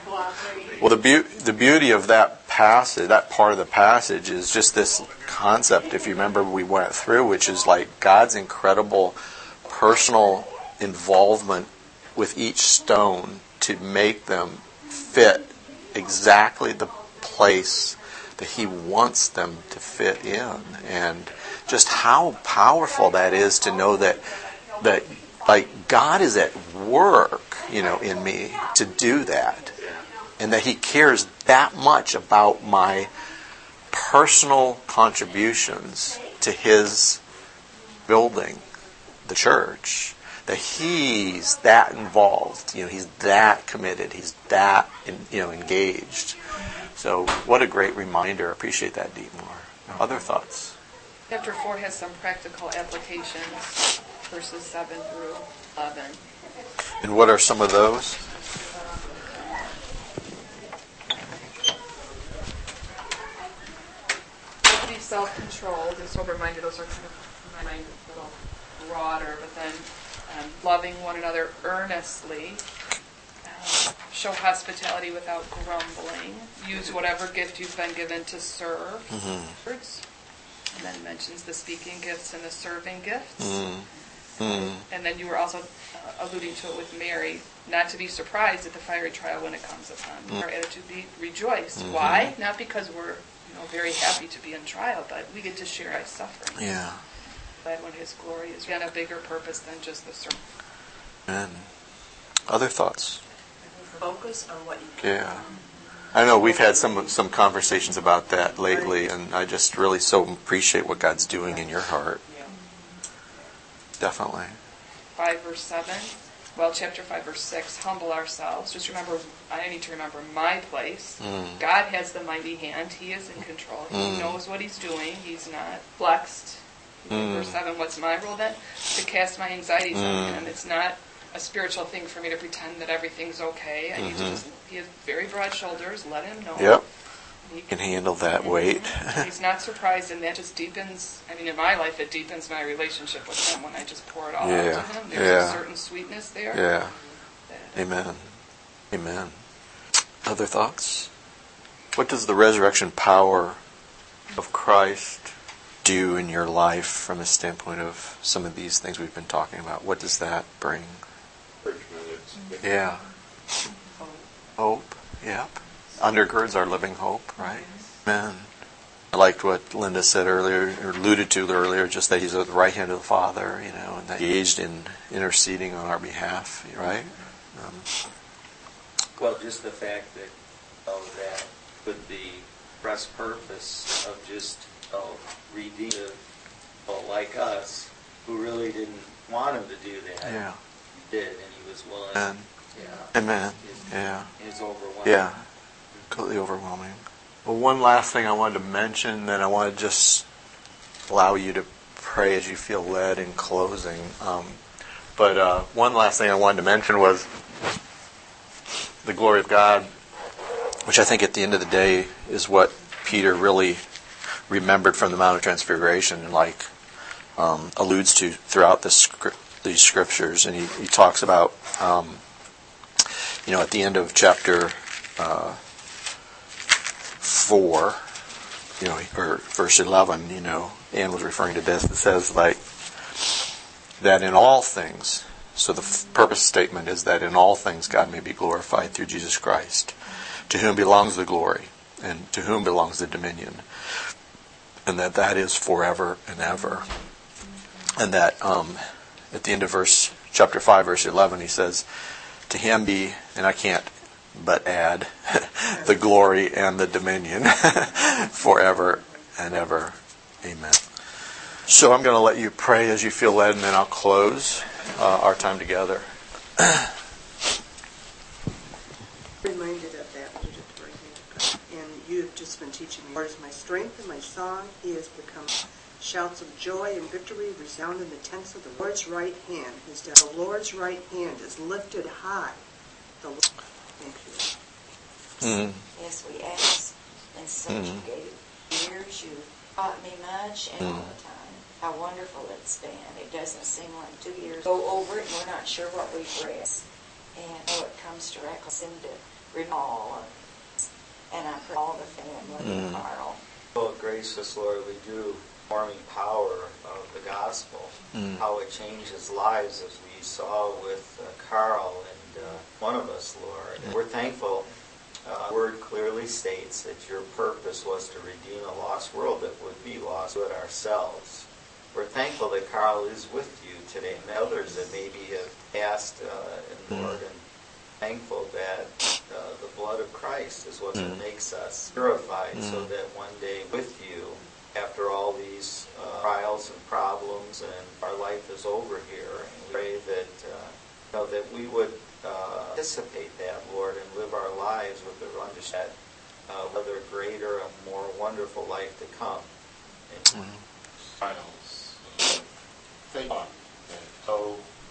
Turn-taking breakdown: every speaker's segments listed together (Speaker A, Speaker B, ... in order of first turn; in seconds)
Speaker A: 0.5-1.0, 29.8-30.0, 161.6-162.7, 351.2-352.4, 353.1-354.6
Speaker B: 0.8-29.8, 30.4-33.1, 33.9-37.2, 38.1-38.6, 39.2-46.4, 47.0-50.8, 57.0-58.2, 79.1-79.6, 83.4-83.8, 84.4-84.8, 91.8-92.3, 96.6-97.0, 101.3-101.7, 102.5-103.2, 105.0-105.5, 106.1-112.2, 114.0-114.6, 121.2-121.6, 123.9-124.4, 127.1-127.6, 129.9-130.4, 134.0-134.4, 136.6-136.8, 137.7-139.3, 144.4-145.6, 146.5-146.9, 147.8-148.2, 148.9-149.4, 150.2-151.1, 151.9-153.6, 154.3-155.3, 155.8-161.0, 162.6-163.0, 164.6-168.5, 169.1-178.0, 190.2-190.6, 192.1-192.5, 193.1-194.3, 195.0-195.4, 196.1-200.3, 201.1-204.6, 205.2-207.3, 209.0-209.9, 210.9-213.8, 214.5-216.7, 217.4-222.2, 223.5-225.6, 227.2-228.0, 228.8-232.6, 233.2-233.4, 234.0-240.0, 240.5-243.6, 244.9-246.9, 247.9-251.9, 252.5-260.8, 261.7-266.1, 266.6-266.9, 285.4-285.8, 287.7-288.0, 290.8-291.1, 302.6-303.0, 308.1-308.4, 326.9-327.2, 331.0-331.2, 332.6-332.9, 350.3-350.6
Speaker C: 51.3-56.2, 64.6-72.6, 73.4-80.0, 80.7-83.6, 84.5-96.7, 97.6-100.4, 115.2-136.8, 137.4-137.8, 138.4-146.6, 147.5-147.8
Speaker D: 103.6-105.5, 108.7-108.9, 112.3-112.5, 269.4-282.6, 284.0-284.5
Speaker E: 179.2-180.3, 180.9-186.2, 186.9-190.4, 190.9-195.3, 303.8-314.7, 315.2-327.4, 328.0-345.9, 346.5-349.5
Speaker F: 285.9-296.8, 297.4-303.4